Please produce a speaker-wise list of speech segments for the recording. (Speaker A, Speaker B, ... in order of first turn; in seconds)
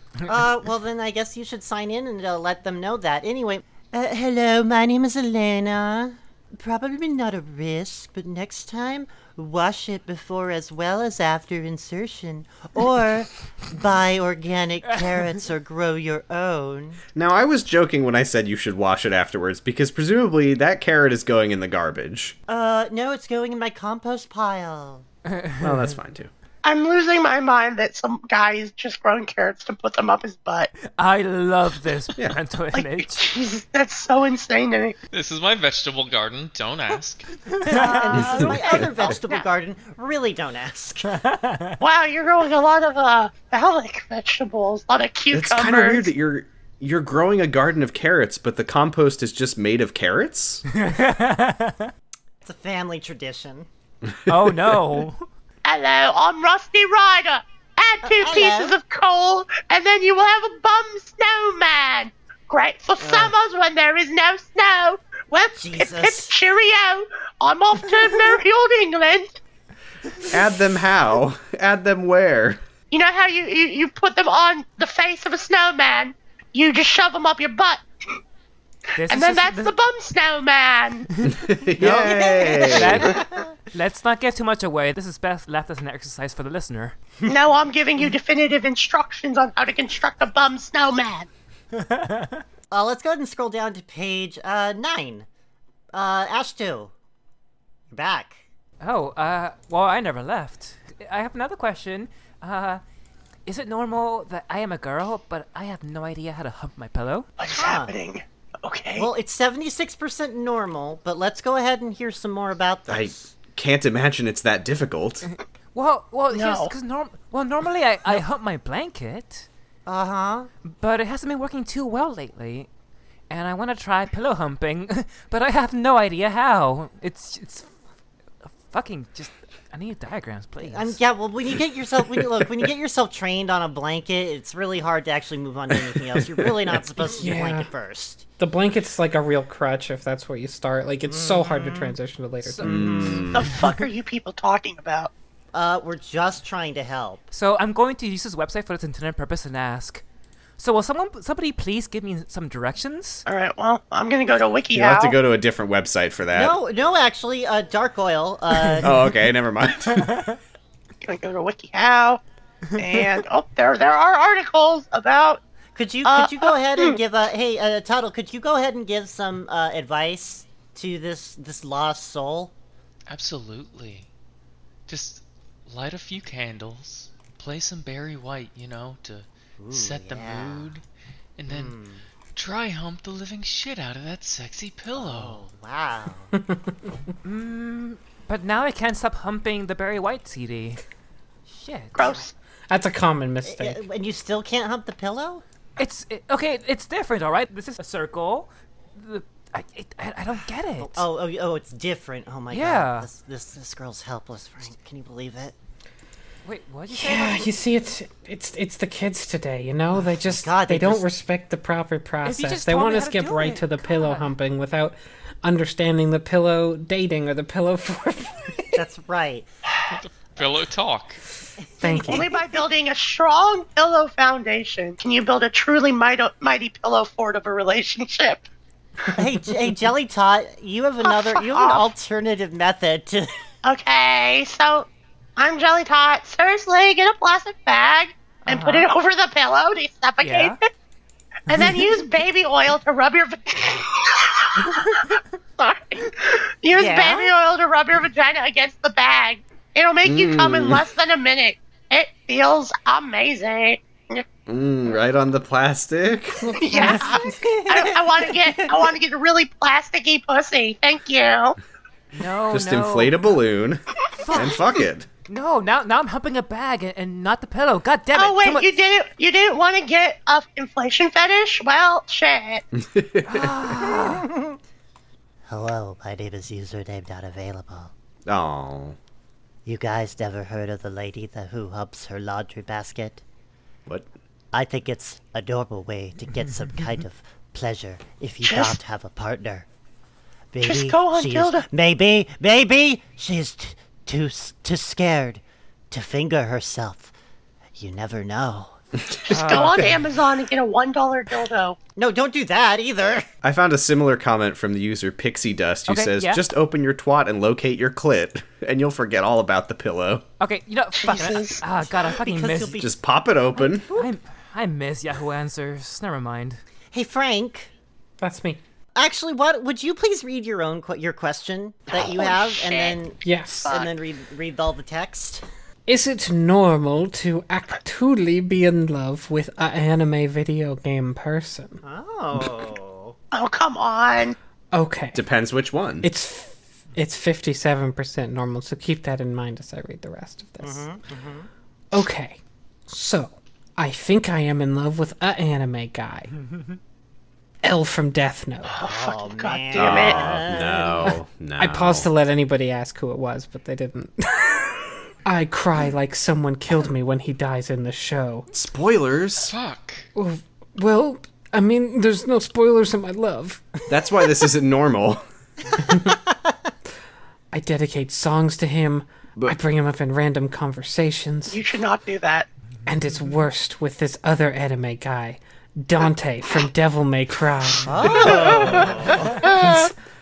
Speaker A: 0.3-17.0, 22.5-25.1, 37.7-41.1, 52.4-53.7, 58.0-58.8, 63.0-63.3, 65.5-66.3, 81.8-83.5, 92.7-95.3, 95.9-96.9, 97.9-98.4, 107.5-108.0, 109.0-113.2, 119.9-120.5, 130.6-138.2, 141.1-142.0, 142.6-143.3, 145.5-147.2, 156.3-159.0, 165.8-172.5, 179.6-180.7, 181.5-182.1, 184.9-186.3, 193.4-195.4, 200.8-205.6, 210.0-211.1, 218.8-219.5, 221.7-222.4, 229.1-233.3, 246.8-247.3, 256.7-258.9, 273.8-274.6, 275.5-277.9, 279.6-283.2, 284.5-289.7, 290.5-297.1, 297.8-298.8, 302.0-303.3, 312.1-312.9, 316.9-317.7, 318.9-325.4, 331.8-333.2, 340.6-341.5, 348.8-351.1, 377.9-379.4
Speaker B: 17.1-22.4, 25.6-26.3, 38.4-39.2, 45.3-50.6, 54.3-54.8, 70.3-72.6, 81.3-83.1, 112.9-115.3, 136.3-136.8, 142.6-143.5, 154.7-156.6, 158.8-160.1, 250.1-250.8, 254.5-256.4, 262.5-265.1, 272.8-273.8, 278.3-279.0, 303.4-310.3, 312.8-314.0, 335.1-336.1, 349.8-352.1, 358.5-359.5, 363.9-365.2
Speaker C: 25.3-25.9, 30.8-33.3, 37.5-38.3, 41.1-41.8, 50.7-51.9, 54.3-55.2, 79.0-79.8, 81.2-87.0, 91.7-92.4, 98.8-102.8, 103.5-107.3, 115.7-119.5, 120.7-122.7, 123.3-127.7, 128.6-131.0, 147.3-150.0, 150.6-153.2, 159.9-160.4, 162.8-163.1, 187.2-190.8, 191.5-192.3, 195.8-201.1, 202.5-203.1, 206.4-207.5, 212.2-214.3, 238.5-238.9, 240.2-240.6, 241.5-241.9, 244.8-245.2, 262.1-263.2, 264.2-264.8, 265.3-268.7, 273.3-274.3, 299.3-300.2, 305.9-306.4, 310.4-312.8, 313.6-316.6
Speaker D: 26.6-30.7, 32.7-35.0, 37.7-39.5, 41.8-46.1, 55.6-69.4, 72.9-77.8, 79.1-81.1, 87.3-91.3, 107.4-109.1, 116.3-116.7, 143.3-145.1, 153.3-155.2, 161.0-162.2, 162.8-165.4, 166.0-167.0, 191.9-192.3, 222.1-228.4, 231.0-231.9, 233.7-240.6, 241.5-244.8, 245.6-254.3, 256.5-261.6, 268.1-272.6, 288.4-288.8, 290.6-291.7, 299.2-301.8, 311.0-311.6, 321.9-323.0, 323.6-324.0, 333.3-334.4, 348.8-350.4, 371.5-372.5
Speaker E: 35.1-37.3, 173.1-174.1, 174.9-180.8, 181.4-181.8, 182.3-185.4, 219.9-221.2, 359.4-360.1
Speaker F: 137.1-137.7, 138.4-143.2, 192.7-193.8, 206.9-218.8, 221.8-222.3, 256.4-257.4, 318.2-318.6, 323.2-323.7, 325.9-331.8, 334.7-335.2, 336.0-340.9, 341.9-346.3, 347.6-348.8, 351.6-354.7, 355.3-358.5, 360.1-363.6, 367.5-371.6, 372.9-379.9